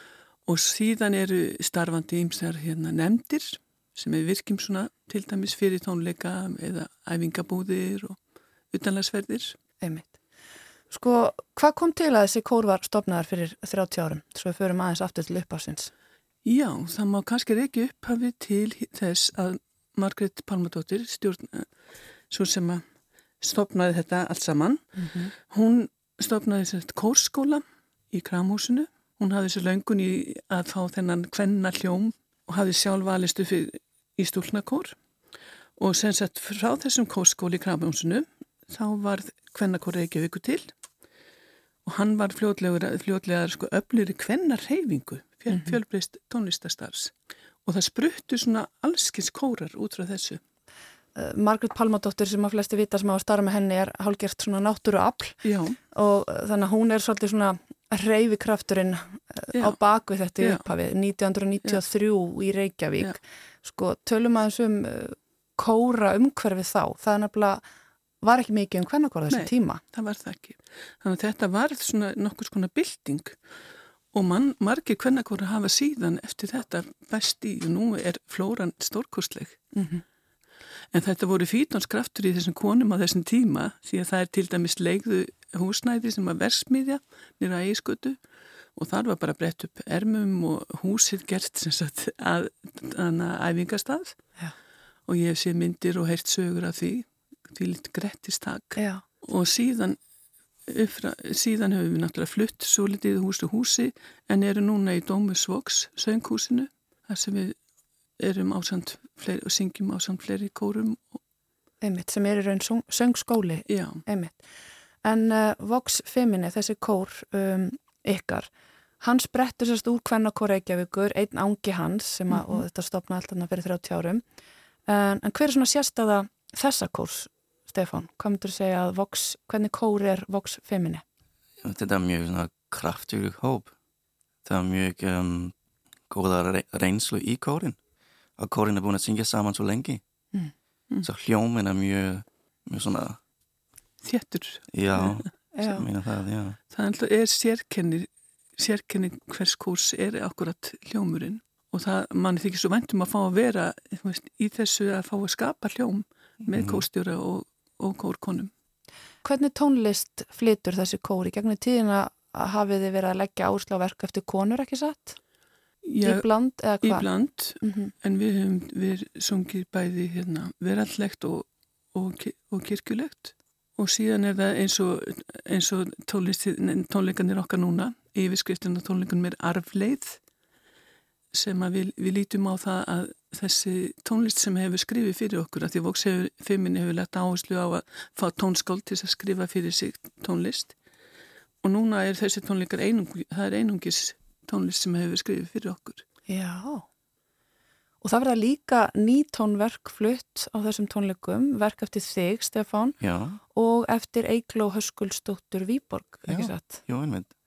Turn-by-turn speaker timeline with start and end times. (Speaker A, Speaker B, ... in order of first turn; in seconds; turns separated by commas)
Speaker A: 0.5-8.2, Speaker A: 8.7-9.6, Speaker B: 9.8-10.2, Speaker B: 10.9-15.9, Speaker A: 16.4-21.7, Speaker A: 22.3-22.8, Speaker A: 23.4-35.0, Speaker B: 25.0-25.3, Speaker A: 35.8-40.7, Speaker A: 41.9-47.1, Speaker B: 45.5-45.8, Speaker A: 47.6-50.4, Speaker B: 51.2-55.4, Speaker A: 55.4-55.8, Speaker B: 55.9-67.6, Speaker A: 60.4-60.6, Speaker B: 68.2-69.8, Speaker A: 69.3-73.4, Speaker A: 74.1-79.7, Speaker B: 79.8-80.0, Speaker A: 80.9-88.2, Speaker A: 88.8-94.4, Speaker A: 95.1-100.0, Speaker B: 98.8-99.0, Speaker A: 100.7-107.6, Speaker A: 108.2-111.2, Speaker B: 111.8-114.4, Speaker A: 113.7-114.0, Speaker B: 115.0-124.2, Speaker A: 122.3-122.6, Speaker B: 124.9-131.0, Speaker C: 131.6-133.7, Speaker C: 134.4-135.5, Speaker C: 136.1-137.8, Speaker C: 138.4-140.0, Speaker C: 141.0-143.2, Speaker A: 144.0-145.3, Speaker C: 144.7-146.6, Speaker B: 145.6-145.9, Speaker A: 146.7-158.5, Speaker C: 156.5-156.8, Speaker B: 159.2-165.2, Speaker A: 165.8-180.2, Speaker B: 166.0-167.1, Speaker B: 167.6-167.9, Speaker A: 181.3-190.8, Speaker A: 191.6-196.1, Speaker B: 196.3-196.9, Speaker B: 198.0-203.0, Speaker C: 203.0-203.4, Speaker B: 203.5-206.9, Speaker C: 206.3-207.3